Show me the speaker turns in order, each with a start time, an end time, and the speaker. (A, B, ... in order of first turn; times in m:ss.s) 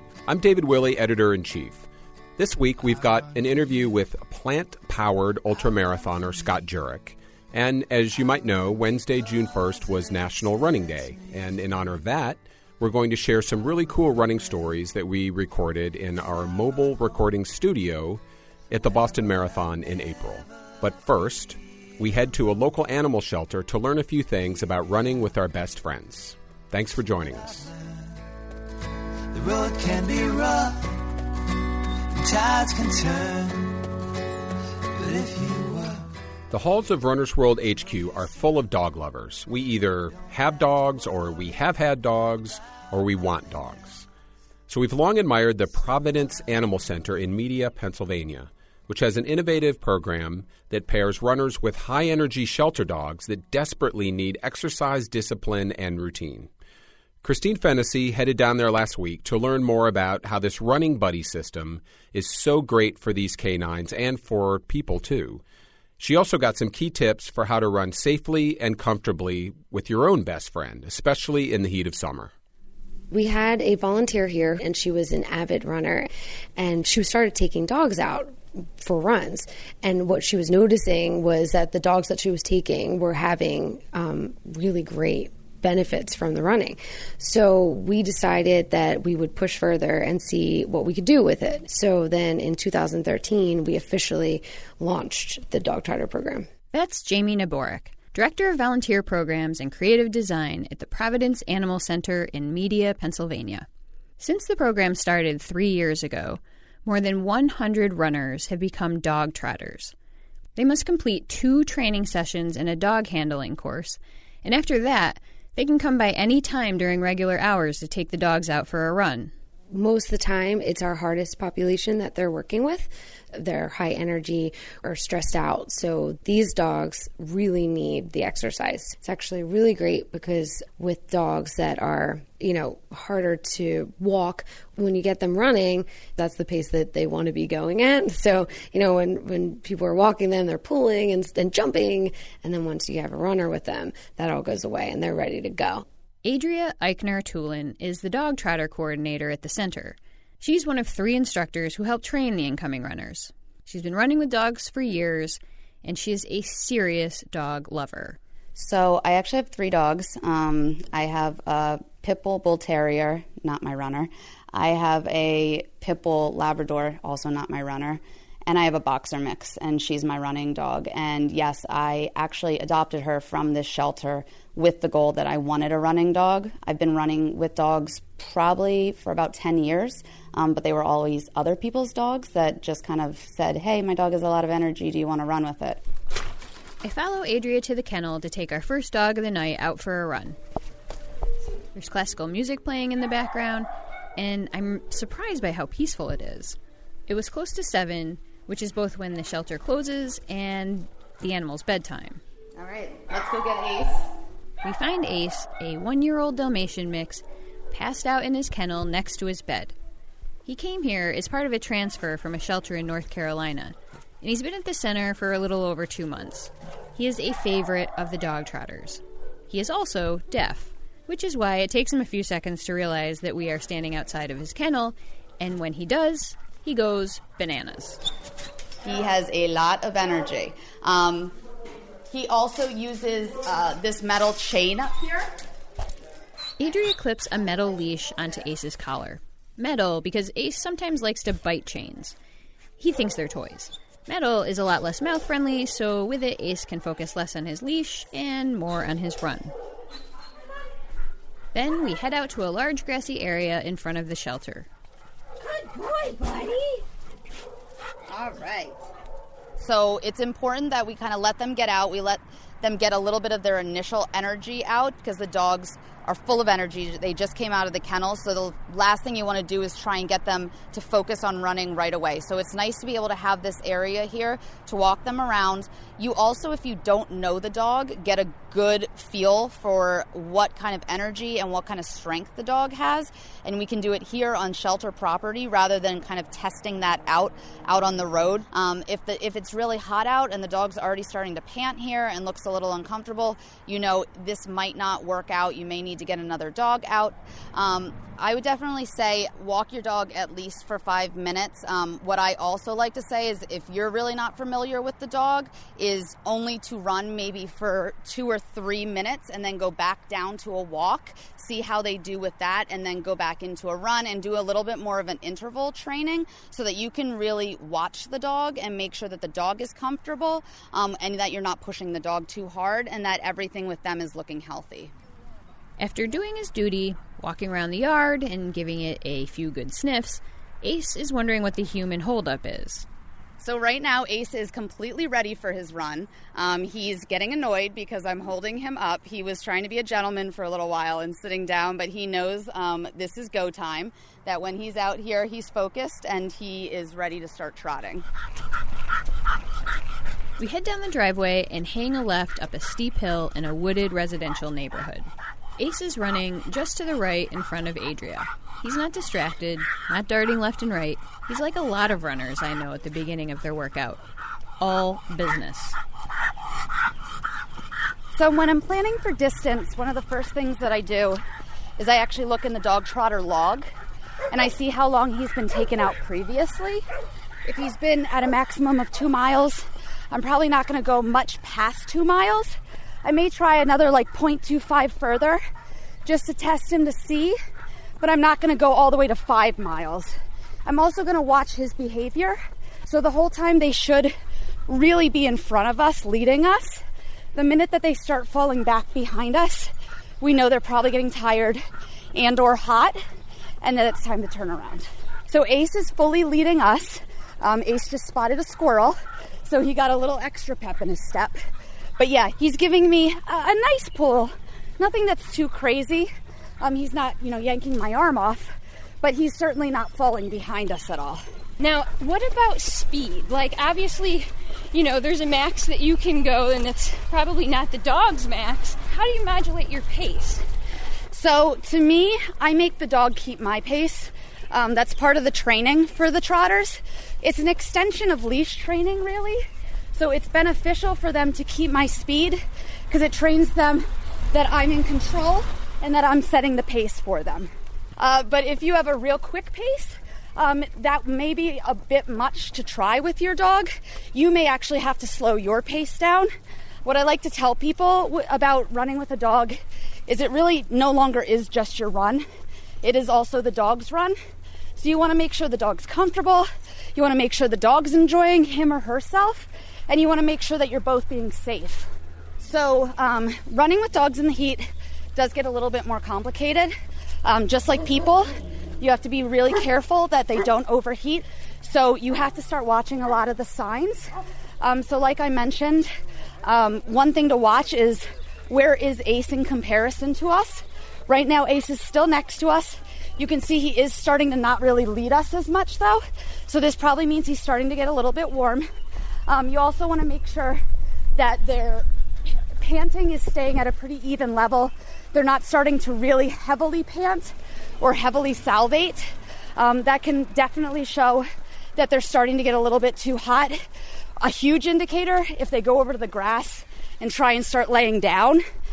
0:00.3-0:01.8 A
0:02.4-0:27.7 A
0:29.3-0:31.0 B
0:32.2-0:33.9 B
0:35.0-0:36.1 B
0:36.5-0:44.1 A
0:44.7-0:56.5 A
0:57.2-1:05.4 A
1:06.0-1:12.3 A
1:13.1-1:36.5 C
1:36.7-1:43.7 D
1:44.2-1:49.9 D
1:50.6-1:59.3 D
1:59.7-2:25.8 C
2:26.2-2:38.2 D
2:38.6-3:05.8 E
3:06.8-3:10.4 D
3:11.7-3:22.2 D
3:22.6-3:24.1 E
3:24.6-3:29.8 D
3:30.4-3:48.0 D
3:48.8-3:51.4 E
3:52.1-3:55.3 E
3:56.6-4:02.2 D
4:02.8-4:09.5 D
4:11.5-4:14.7 D
4:15.4-4:16.6 E
4:18.1-4:18.8 E
4:19.6-5:24.9 E
5:25.8-5:32.9 D
5:33.4-5:48.1 E
5:50.4-6:04.0 D
6:04.6-6:05.8 D
6:08.1-6:11.2 E
6:11.8-6:13.7 E
6:14.3-6:16.8 E
6:17.4-6:25.4 E
6:26.0-6:27.4 E
6:28.0-6:34.2 E
6:34.7-6:36.8 E
6:37.3-6:41.6 E
6:42.1-6:43.0 E
6:43.6-6:51.4 E
6:52.0-6:56.1 E
6:56.6-7:01.2 E
7:01.6-7:10.5 F
7:11.1-7:36.3 E
7:36.8-7:42.2 E
7:42.8-7:44.2 E
7:44.8-8:05.9 E
8:06.4-8:18.6 E
8:19.3-8:20.6 E
8:21.2-8:21.9 E
8:22.6-8:33.6 E
8:34.2-8:38.4 E